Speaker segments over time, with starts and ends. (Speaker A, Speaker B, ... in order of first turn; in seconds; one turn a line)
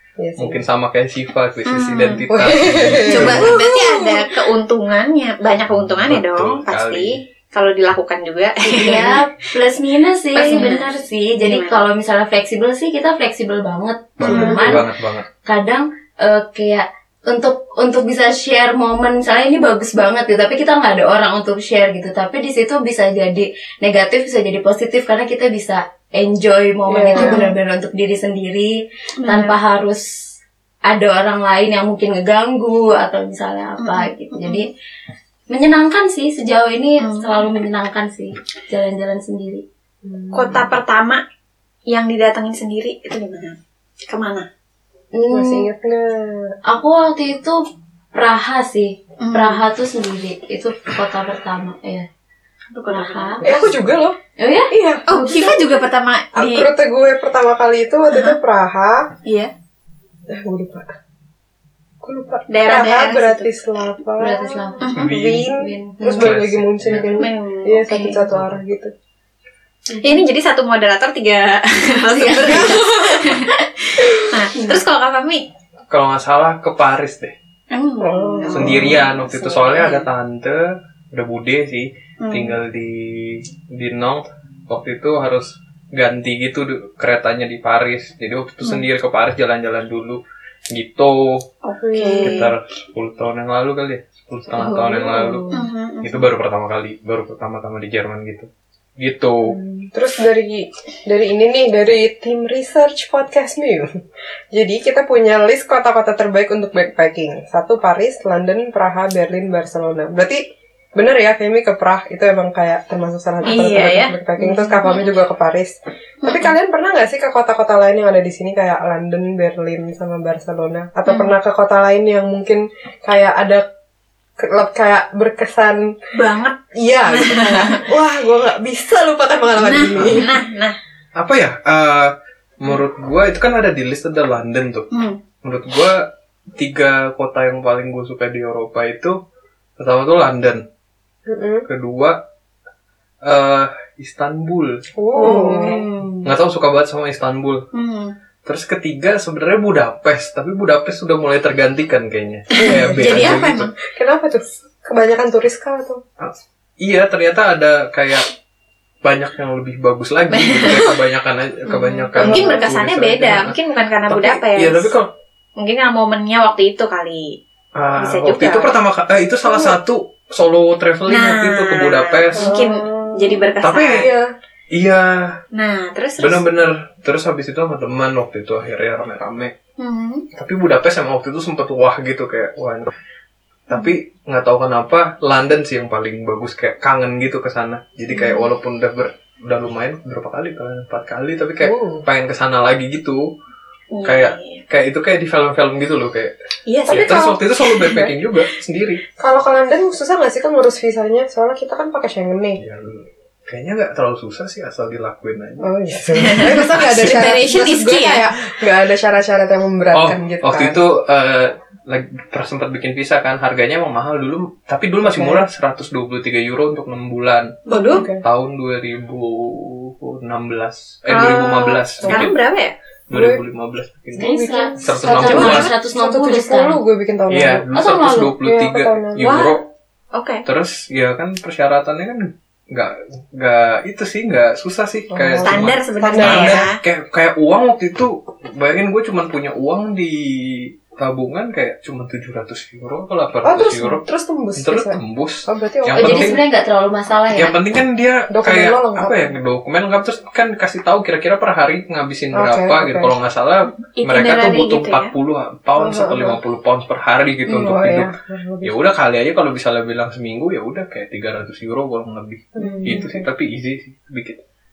Speaker A: 0.2-0.6
Speaker B: 0.4-3.5
Speaker C: 1.7-2.3
Speaker A: 2.3-4.3
Speaker C: 3.0-9.2
Speaker B: 5.8-7.2
Speaker D: 8.7-14.9
Speaker C: 10.3-10.9
Speaker C: 11.4-11.9
Speaker B: 14.2-15.3
Speaker A: 14.2-14.8
Speaker D: 15.4-28.7
Speaker A: 26.9-27.4
Speaker C: 27.2-27.5
Speaker C: 29.2-29.6
Speaker D: 29.2-30.1
Speaker D: 30.9-34.7
Speaker C: 33.8-34.7
Speaker D: 35.5-39.6
Speaker C: 37.0-37.5
Speaker A: 40.0-40.8
Speaker C: 40.3-41.2
Speaker C: 41.9-43.6
Speaker C: 44.1-44.5
Speaker D: 45.1-45.7
Speaker A: 45.3-46.5
Speaker D: 46.7-47.6
Speaker D: 48.1-52.1
Speaker C: 49.2-49.6
Speaker C: 52.7-53.7
Speaker D: 52.9-53.6
Speaker A: 53.4-54.2
Speaker D: 54.4-55.6
Speaker A: 54.7-55.7
Speaker C: 55.1-56.7
Speaker A: 56.4-59.1
Speaker C: 58.1-58.4
Speaker C: 59.2-59.5
Speaker A: 60.3-60.9
Speaker A: 62.0-68.9
Speaker C: 62.5-63.5
Speaker D: 64.2-66.4
Speaker C: 64.8-65.2
Speaker B: 65.0-65.5
Speaker B: 66.2-67.2
Speaker C: 67.2-68.2
Speaker C: 70.0-75.5
Speaker D: 72.1-73.3
Speaker A: 72.4-73.3
Speaker D: 74.5-74.8
Speaker B: 75.9-77.3
Speaker C: 77.7-80.1
Speaker A: 78.0-79.0
Speaker B: 78.5-91.5
Speaker C: 82.2-82.6
Speaker C: 91.6-92.5
Speaker A: 91.8-92.5
Speaker B: 92.2-95.5
Speaker A: 94.6-95.6
Speaker C: 95.5-96.3
Speaker B: 96.0-99.6
Speaker A: 99.5-103.9
Speaker A: 104.5-110.4
Speaker A: 111.0-123.6
Speaker C: 113.5-115.1
Speaker C: 116.2-116.5
Speaker C: 121.1-121.3
Speaker A: 124.4-125.9
Speaker C: 126.1-126.6
Speaker A: 126.8-130.4
Speaker C: 127.1-127.8
Speaker C: 129.6-130.8
Speaker B: 130.0-130.3
Speaker B: 131.2-134.9
Speaker C: 134.9-135.2
Speaker B: 135.4-136.0
Speaker B: 136.6-139.2
Speaker B: 139.8-140.6
Speaker A: 141.3-141.7
Speaker B: 141.7-142.2
Speaker B: 143.2-144.8
Speaker A: 145.0-145.9
Speaker C: 145.2-145.8
Speaker D: 145.2-146.2
Speaker B: 146.2-147.7
Speaker C: 147.7-148.1
Speaker B: 148.4-153.7
Speaker C: 152.5-153.7
Speaker A: 152.6-156.0
Speaker B: 156.2-158.3
Speaker B: 159.0-163.6
Speaker C: 160.3-161.0
Speaker C: 162.2-164.9
Speaker A: 162.2-162.8
Speaker B: 164.1-165.1
Speaker C: 165.6-167.4
Speaker B: 167.8-172.7
Speaker C: 168.0-168.7
Speaker C: 171.1-174.1
Speaker A: 172.4-174.3
Speaker B: 173.6-174.1
Speaker B: 174.7-175.4
Speaker C: 175.5-176.4
Speaker B: 176.2-179.5
Speaker C: 179.8-180.2
Speaker B: 180.3-182.9
Speaker B: 183.7-193.3
Speaker C: 188.1-188.5
Speaker A: 191.6-192.0
Speaker C: 193.9-194.6
Speaker B: 194.1-196.3
Speaker C: 196.7-198.1
Speaker A: 196.9-198.1
Speaker B: 196.9-199.0
Speaker A: 199.2-202.6
Speaker B: 202.6-207.3
Speaker A: 205.6-210.8
Speaker C: 206.3-208.3
Speaker B: 209.9-217.6
Speaker A: 215.0-215.4
Speaker C: 217.7-218.1
Speaker A: 217.9-218.2
Speaker B: 218.2-222.3
Speaker C: 221.1-222.7
Speaker A: 222.0-222.3
Speaker B: 223.1-224.3
Speaker A: 223.1-223.4
Speaker D: 224.2-226.8
Speaker A: 224.2-227.7
Speaker B: 224.8-225.7
Speaker C: 225.2-225.7
Speaker B: 227.3-229.7
Speaker D: 227.7-228.3
Speaker A: 228.4-229.3
Speaker C: 229.2-229.6
Speaker C: 230.1-230.4
Speaker B: 230.5-244.0
Speaker A: 235.1-236.7
Speaker C: 235.4-236.8
Speaker A: 243.4-246.4
Speaker B: 244.6-246.4
Speaker D: 245.9-247.6
Speaker B: 247.4-258.1
Speaker A: 248.3-249.4
Speaker A: 252.3-253.1
Speaker C: 253.8-255.1
Speaker A: 255.8-256.4
Speaker A: 257.5-258.8
Speaker B: 258.6-264.4
Speaker A: 262.6-263.3
Speaker D: 262.6-263.1